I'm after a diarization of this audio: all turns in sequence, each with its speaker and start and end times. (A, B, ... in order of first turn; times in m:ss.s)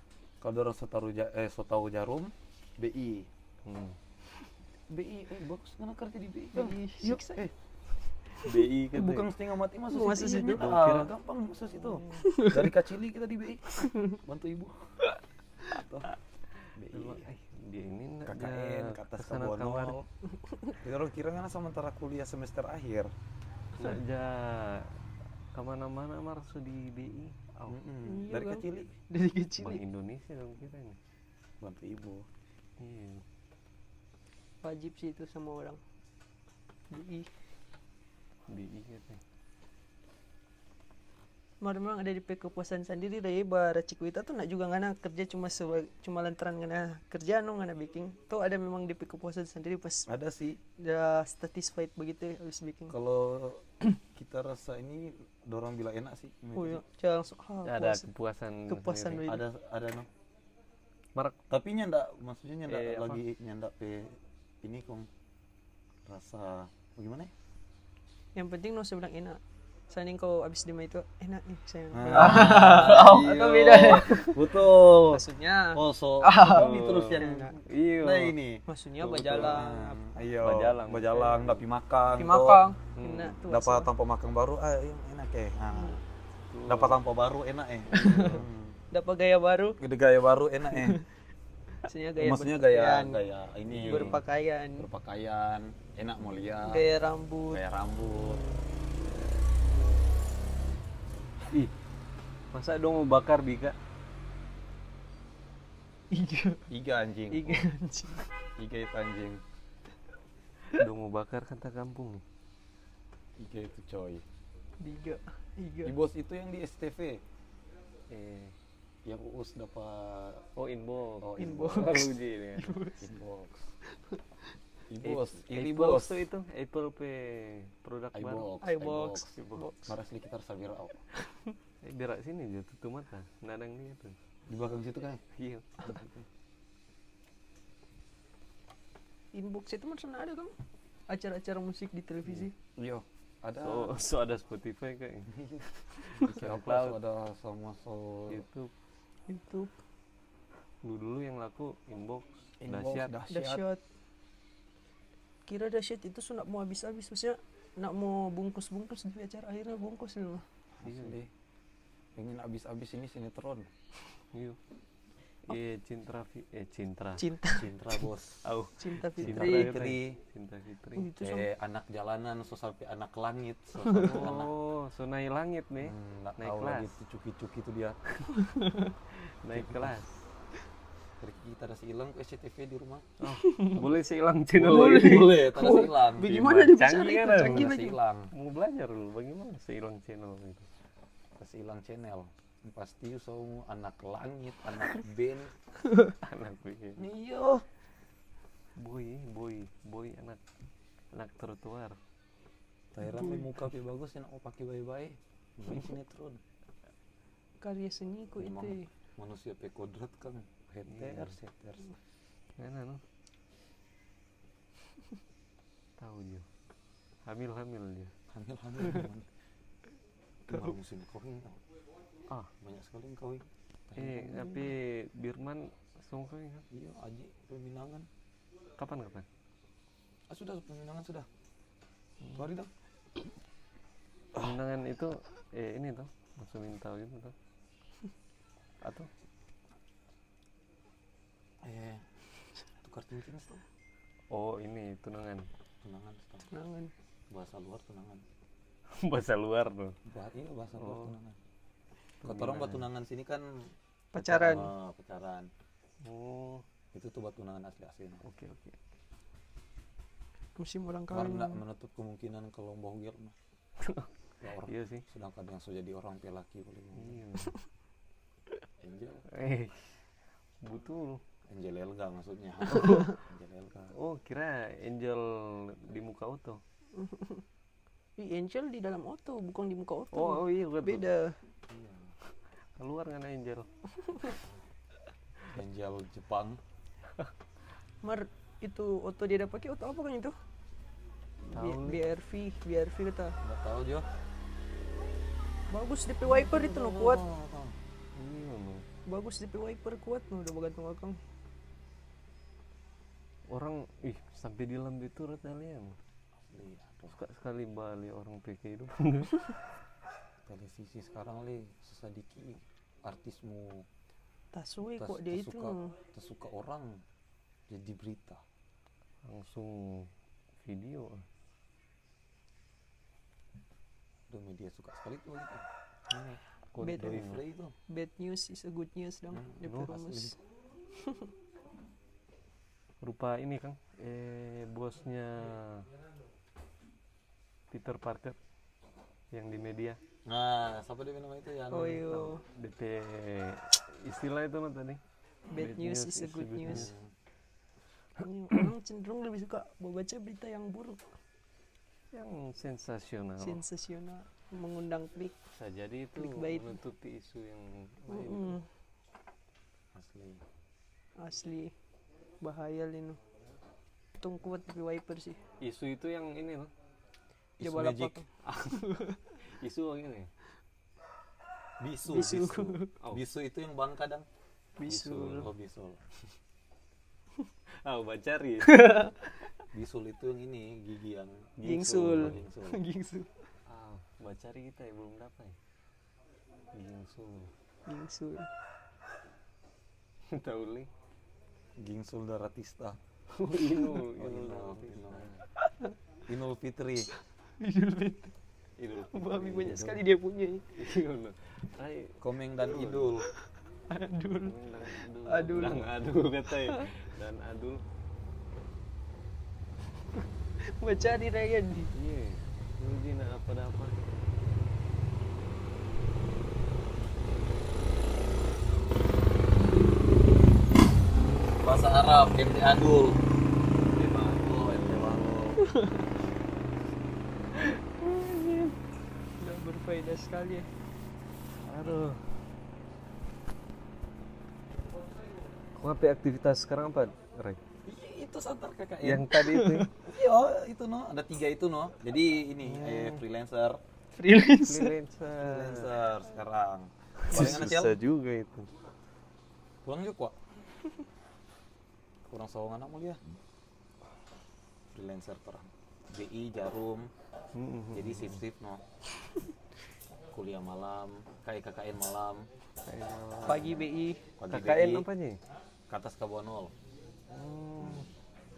0:00.4-0:03.3 A
0:03.6-0:04.0 B
0:04.9-0:07.5 A
0:06.6-0:07.4 C
0:08.4-0:09.3 B
0:08.9-0:14.8 A
0:09.9-0:10.6 C
0:10.6-0:11.1 B
0:12.0-0:12.7 C
0:13.8-0:14.2 C
0:15.7-0:16.1 A
0:16.8-0:17.3 A
0:16.9-0:20.0 B
0:18.3-0:20.1 A
0:20.5-0:20.7 C
0:20.8-0:23.1 A
0:23.8-0:24.9 B
0:25.5-0:27.8 B
0:27.7-0:28.9 A
0:28.0-0:29.8 C
0:29.6-0:31.0 B
0:31.6-0:32.3 A
0:32.8-0:33.2 B
0:34.6-0:35.8 C
0:36.9-0:37.3 C
0:38.5-0:39.2 B
0:41.6-0:50.1 C
0:50.1-0:50.6 A
0:50.8-0:53.0 C
0:52.9-0:56.8 A
0:56.5-0:58.1 C
0:57.6-0:59.3 B
0:58.7-0:59.5 C
0:59.2-1:00.1 A
1:01.5-1:05.1 A
1:02.7-1:03.2 B
1:06.1-1:07.3 A
1:08.4-1:14.4 C
1:11.9-1:22.6 A
1:12.2-1:14.2 B
1:15.0-1:17.5 C
1:16.4-1:18.4 B
1:18.7-1:20.0 C
1:19.0-1:19.6 B
1:20.4-1:21.6 B
1:22.2-1:23.9 C
1:23.0-1:23.4 B
1:23.4-1:26.0 A
1:26.5-1:27.0 B
1:26.7-1:28.8 A
1:27.9-1:28.4 C
1:28.9-1:29.8 C
1:29.8-1:31.0 A
1:30.7-1:31.0 C
1:31.8-1:33.2 C
1:32.2-1:34.2 A
1:33.7-1:34.9 C
1:33.8-1:34.2 B
1:34.8-1:36.9 A
1:36.6-1:37.6 C
1:37.5-1:38.4 A
1:38.2-1:38.6 C
1:42.5-1:43.8 B
1:46.1-1:46.6 C
1:46.7-1:47.7 A
1:47.3-1:48.3 C
1:48.6-1:49.4 A
1:50.7-1:52.2 B
1:53.4-1:54.2 A
1:54.8-1:56.0 C
1:55.8-1:57.2 A
1:58.1-1:58.5 B
1:59.0-2:00.5 A
2:00.6-2:02.8 B
2:01.2-2:02.1 A
2:01.4-2:03.1 C
2:03.0-2:03.7 A
2:04.9-2:06.2 A
2:05.0-2:08.5 B
2:08.1-2:09.3 A
2:08.6-2:09.9 C
2:09.4-2:09.7 B
2:09.9-2:11.0 A
2:11.2-2:11.5 C
2:11.8-2:14.2 B
2:14.5-2:15.2 A
2:15.4-2:15.8 B
2:15.8-2:16.3 A
2:19.3-2:20.5 C
2:21.1-2:22.5 C
2:22.8-2:23.9 A
2:23.6-2:25.3 B
2:25.3-2:28.4 A
2:26.1-2:27.0 B
2:28.3-2:28.7 B
2:29.3-2:29.7 C
2:30.8-2:33.1 B
2:32.6-2:33.6 A
2:33.3-2:33.8 C
2:35.5-2:40.4 C
2:40.8-2:41.3 A
2:40.8-2:41.2 B
2:42.2-2:43.7 A
2:44.3-2:44.6 B
2:45.5-2:47.2 B
2:47.2-2:47.7 C
2:47.5-2:48.4 A
2:48.4-2:51.1 B
2:48.8-2:49.8 C
2:49.2-2:50.2 A
2:51.0-2:51.5 C
2:51.2-2:54.5 A
2:53.8-2:54.3 C
2:54.0-2:56.9 B
2:55.8-2:58.0 A
2:58.3-2:58.9 C
2:59.4-3:00.1 B
2:59.5-3:00.0 A
3:01.2-3:03.1 A
3:03.2-3:10.7 B
3:03.3-3:03.8 C
3:04.6-3:06.3 A
3:04.6-3:08.0 C
3:07.4-3:08.3 A
3:11.4-3:15.5 A
3:15.8-3:16.2 C
3:16.2-3:17.0 B
3:17.0-3:17.6 A
3:18.8-3:20.4 B
3:21.1-3:22.0 B
3:22.9-3:26.4 A
3:23.1-3:23.4 C
3:27.6-3:28.9 C
3:28.4-3:31.9 A
3:30.9-3:31.4 B
3:32.6-3:33.0 B
3:36.0-3:36.5 B
3:37.3-3:38.1 B
3:38.3-3:39.3 A
3:40.5-3:41.6 A
3:42.6-3:44.7 A
3:44.0-3:46.6 B
3:46.7-3:48.1 A
3:48.8-3:49.2 B
3:50.3-3:51.3 A
3:52.4-3:52.7 A
3:54.4-3:57.3 B
3:58.8-3:59.1 B
4:01.6-4:02.0 A
4:02.8-4:03.6 A
4:04.3-4:05.5 B
4:05.8-4:06.5 A
4:06.5-4:06.9 C
4:07.3-4:08.2 A
4:08.9-4:10.0 B
4:10.1-4:11.4 A
4:10.8-4:11.1 B
4:12.2-4:12.9 B
4:12.2-4:15.5 A
4:14.1-4:14.7 C
4:16.0-4:16.6 B
4:16.9-4:18.2 A
4:18.2-4:18.8 B
4:20.6-4:21.6 C
4:21.1-4:23.3 A
4:23.8-4:24.1 B
4:24.4-4:27.2 A
4:24.7-4:25.0 B
4:27.0-4:27.6 B
4:28.8-4:29.3 A
4:29.3-4:29.9 B
4:30.6-4:31.2 B
4:31.5-4:34.0 A
4:32.7-4:33.1 C
4:33.9-4:36.6 B
4:37.0-4:37.4 C
4:38.2-4:41.4 C
4:40.1-4:41.1 B
4:41.7-4:42.1 A
4:42.8-4:43.7 B
4:45.5-4:46.6 A
4:48.0-4:50.3 C
4:51.5-4:52.0 B
4:51.5-4:53.4 C
4:53.4-4:54.1 A
4:55.7-4:57.2 C
4:56.3-4:57.8 A
4:58.2-4:58.8 B
4:59.1-5:01.2 C
5:03.5-5:06.0 B
5:06.4-5:07.2 A
5:07.1-5:09.6 B
5:10.5-5:13.9 A
5:14.5-5:16.0 C
5:15.0-5:17.0 A
5:17.7-5:18.4 A
5:19.2-5:20.1 B
5:20.6-5:21.2 B
5:24.3-5:25.7 A
5:26.1-5:27.4 B
5:26.8-5:27.2 C
5:26.8-5:27.8 A
5:27.9-5:30.4 C
5:29.3-5:30.2 A
5:29.7-5:30.3 B
5:31.0-5:31.3 C
5:33.0-5:35.9 B
5:37.7-5:38.4 B
5:39.3-5:40.0 B
5:40.3-5:42.2 A
5:41.7-5:42.4 C
5:42.0-5:45.0 B
5:45.5-5:46.9 C
5:45.5-5:46.9 B
5:46.6-5:47.1 A
5:48.2-5:51.0 C
5:52.1-5:53.6 B
5:53.4-5:55.4 C
5:55.5-5:58.6 B
5:56.2-5:56.8 C
5:58.1-5:58.6 C
5:59.9-6:00.4 A
6:01.2-6:01.7 C
6:02.4-6:03.2 C
6:04.2-6:05.4 C
6:05.6-6:06.7 B
6:07.6-6:08.2 A
6:07.6-6:09.3 C
6:08.4-6:08.9 B
6:09.5-6:10.3 B
6:11.8-6:14.3 A
6:12.1-6:12.9 C
6:14.8-6:15.5 C
6:14.9-6:15.5 B
6:15.4-6:16.0 A
6:17.8-6:19.0 B
6:18.6-6:19.3 C
6:19.7-6:22.8 A
6:21.6-6:22.5 B
6:21.6-6:23.4 C
6:23.7-6:25.6 B
6:26.7-6:27.5 B
6:27.9-6:28.5 C
6:30.3-6:30.9 B
6:31.8-6:33.0 A
6:33.4-6:35.4 B
6:34.2-6:35.3 A
6:35.6-6:35.9 C
6:36.3-6:37.1 A
6:37.6-6:38.3 C
6:38.8-6:40.0 B
6:39.1-6:40.7 C
6:39.6-6:40.0 A
6:40.8-6:43.1 B
6:42.2-6:43.3 A
6:43.9-6:44.6 C
6:44.4-6:47.8 B
6:45.3-6:45.9 C
6:46.5-6:47.0 C
6:50.8-6:51.9 C
6:51.9-6:54.0 B
7:01.6-7:03.2 A
7:03.9-7:05.6 B
7:04.4-7:05.6 A
7:05.6-7:06.1 C
7:07.5-7:08.8 B
7:09.4-7:10.7 C
7:11.6-7:12.2 B
7:15.8-7:17.6 B
7:17.8-7:19.4 A
7:19.0-7:19.9 B
7:19.3-7:19.9 C
7:20.0-7:23.8 A
7:22.6-7:23.2 B
7:24.1-7:25.0 C
7:24.6-7:26.0 B
7:25.4-7:28.0 A
7:27.2-7:28.7 B
7:27.3-7:27.6 C
7:29.8-7:30.4 A
7:32.3-7:33.2 A
7:34.9-7:37.1 A
7:37.6-7:38.4 B
7:37.9-7:38.8 A
7:40.3-7:42.5 A
7:42.8-7:43.7 B
7:43.4-7:43.8 A
7:43.5-7:44.2 C
7:44.4-7:45.1 A
7:44.5-7:45.4 B
7:45.9-7:46.7 A
7:47.3-7:48.1 B
7:47.8-7:48.1 A